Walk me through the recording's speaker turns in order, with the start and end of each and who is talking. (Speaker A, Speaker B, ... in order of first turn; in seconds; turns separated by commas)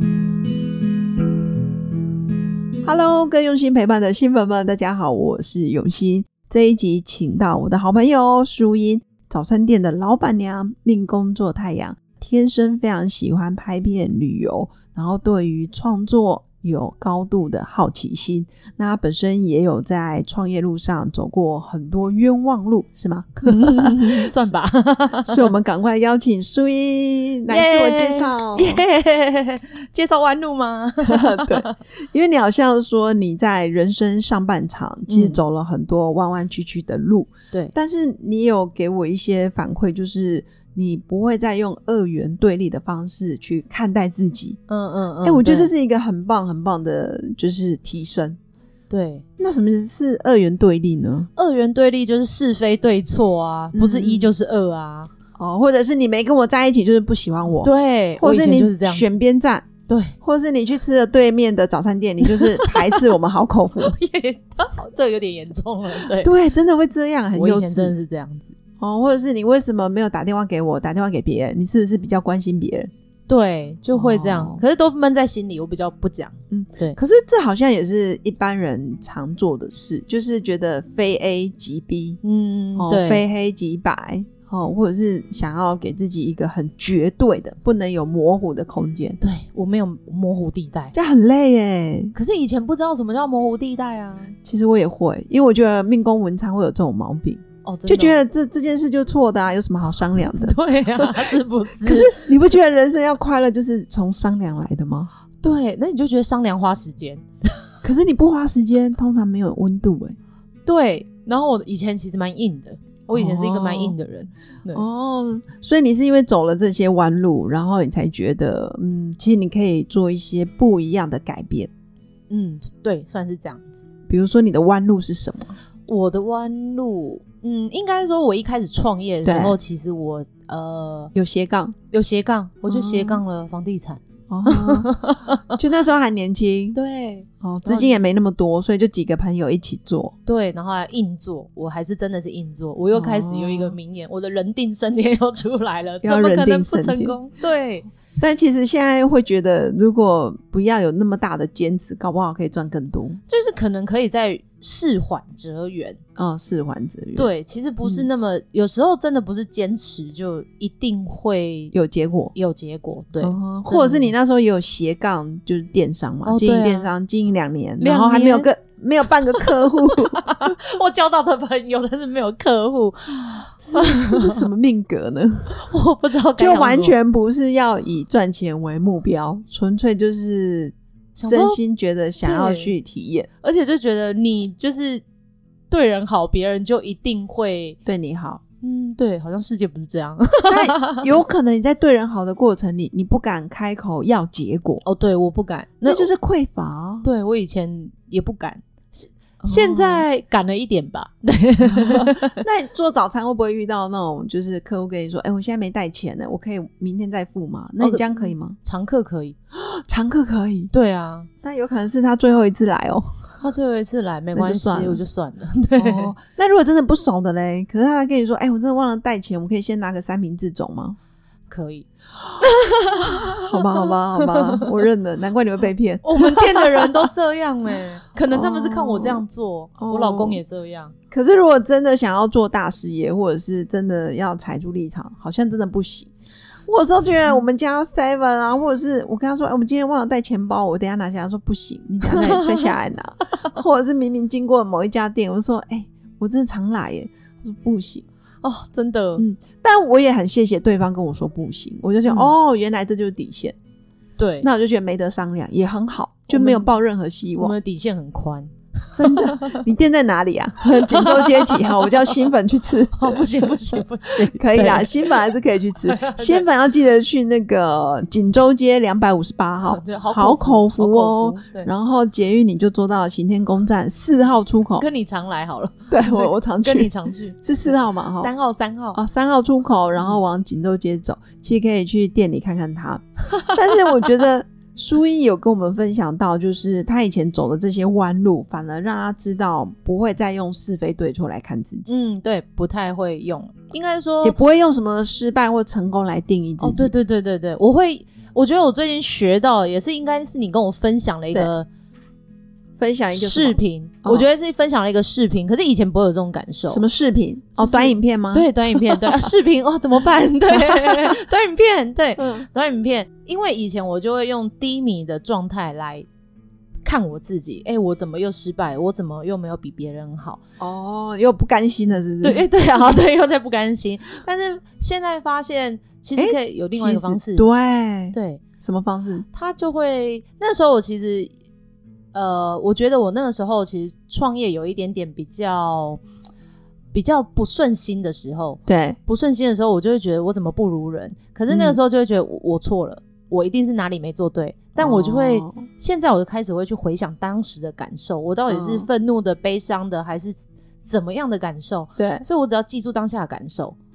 Speaker A: 2.8-24.5, Speaker B: 23.4-25.5, Speaker A: 25.3-28.8, Speaker B: 27.5-31.8, Speaker A: 31.1-44.6, Speaker B: 35.1-35.4, Speaker B: 44.7-45.7, Speaker A: 45.2-48.4, Speaker B: 48.9-49.2, Speaker A: 49.4-51.3, Speaker B: 51.4-55.1, Speaker A: 53.7-54.3, Speaker A: 55.4-59.7, Speaker B: 57.6-59.1, Speaker B: 59.9-60.2, Speaker A: 60.2-63.9, Speaker B: 62.2-63.1, Speaker B: 63.8-66.3, Speaker A: 66.0-68.0, Speaker B: 67.3-68.5, Speaker A: 68.8-72.9, Speaker B: 73.3-77.0, Speaker A: 73.9-74.6, Speaker A: 76.5-82.2, Speaker B: 82.2-83.2, Speaker A: 82.8-89.2, Speaker B: 89.2-90.9, Speaker A: 90.9-92.1, Speaker B: 92.1-94.4, Speaker A: 94.4-105.1, Speaker B: 97.6-98.2, Speaker B: 100.3-102.3, Speaker B: 105.4-107.3, Speaker A: 107.8-110.2, Speaker B: 110.7-114.8, Speaker A: 113.1-114.0, Speaker A: 114.7-121.7, Speaker B: 122.3-123.9, Speaker A: 124.1-125.5, Speaker B: 125.9-131.1, Speaker A: 129.2-129.6, Speaker A: 131.2-131.8, Speaker B: 131.9-135.6, Speaker A: 132.7-133.2, Speaker A: 134.3-134.9, Speaker A: 135.5-136.8, Speaker B: 136.7-138.0, Speaker A: 137.4-140.1, Speaker B: 140.3-147.9, Speaker A: 142.9-143.8, Speaker A: 146.0-147.2, Speaker A: 148.2-153.2, Speaker B: 153.3-156.0, Speaker A: 156.2-157.3, Speaker B: 157.2-161.7, Speaker A: 161.7-162.3, Speaker B: 162.3-164.1, Speaker A: 163.2-170.5, Speaker B: 166.2-166.9, Speaker B: 167.8-168.5, Speaker B: 169.3-174.4, Speaker A: 173.6-175.6, Speaker B: 175.5-177.0, Speaker A: 176.3-183.3, Speaker B: 181.2-181.6, Speaker B: 182.2-182.7, Speaker B: 183.4-185.0, Speaker B: 185.7-187.8, Speaker A: 187.9-188.4, Speaker B: 188.6-191.1, Speaker A: 190.5-194.8, Speaker B: 194.8-196.1, Speaker A: 195.8-197.1, Speaker B: 197.0-202.4, Speaker A: 199.4-200.1, Speaker A: 201.7-208.6, Speaker B: 207.8-209.4, Speaker A: 209.5-210.7, Speaker B: 210.7-211.3, Speaker A: 211.4-213.2, Speaker B: 213.4-216.1, Speaker A: 214.3-215.0, Speaker A: 215.8-221.0, Speaker B: 221.5-221.9, Speaker B: 222.4-224.7, Speaker A: 223.2-227.1, Speaker B: 226.0-230.9, Speaker A: 228.3-229.2, Speaker A: 229.8-230.4, Speaker A: 231.1-236.1, Speaker A: 236.7-248.1, Speaker B: 242.1-242.6, Speaker B: 248.4-249.2, Speaker A: 249.2-253.6, Speaker B: 252.1-252.3, Speaker B: 254.2-254.5, Speaker A: 254.4-257.6, Speaker B: 256.3-256.7, Speaker B: 257.4-259.6, Speaker A: 258.9-274.9, Speaker B: 260.8-262.2, Speaker B: 263.0-265.3, Speaker B: 265.8-266.5, Speaker B: 269.6-271.7, Speaker B: 274.8-279.0, Speaker A: 275.9-276.9, Speaker A: 277.4-278.3, Speaker A: 278.9-291.9, Speaker B: 291.9-294.4, Speaker A: 294.2-296.9, Speaker B: 296.6-301.7, Speaker A: 302.8-304.3, Speaker B: 303.1-306.9, Speaker A: 306.7-309.3, Speaker B: 307.6-316.1, Speaker A: 310.5-311.2, Speaker A: 312.2-312.5, Speaker B: 316.8-320.4, Speaker A: 320.6-323.0, Speaker B: 322.2-327.4, Speaker A: 326.2-329.2, Speaker B: 328.1-328.4, Speaker B: 329.3-331.3, Speaker B: 332.1-336.0, Speaker B: 336.9-353.8, Speaker A: 338.7-339.0, Speaker A: 341.5-341.8, Speaker A: 344.8-345.7, Speaker A: 348.5-348.9, Speaker A: 352.0-352.2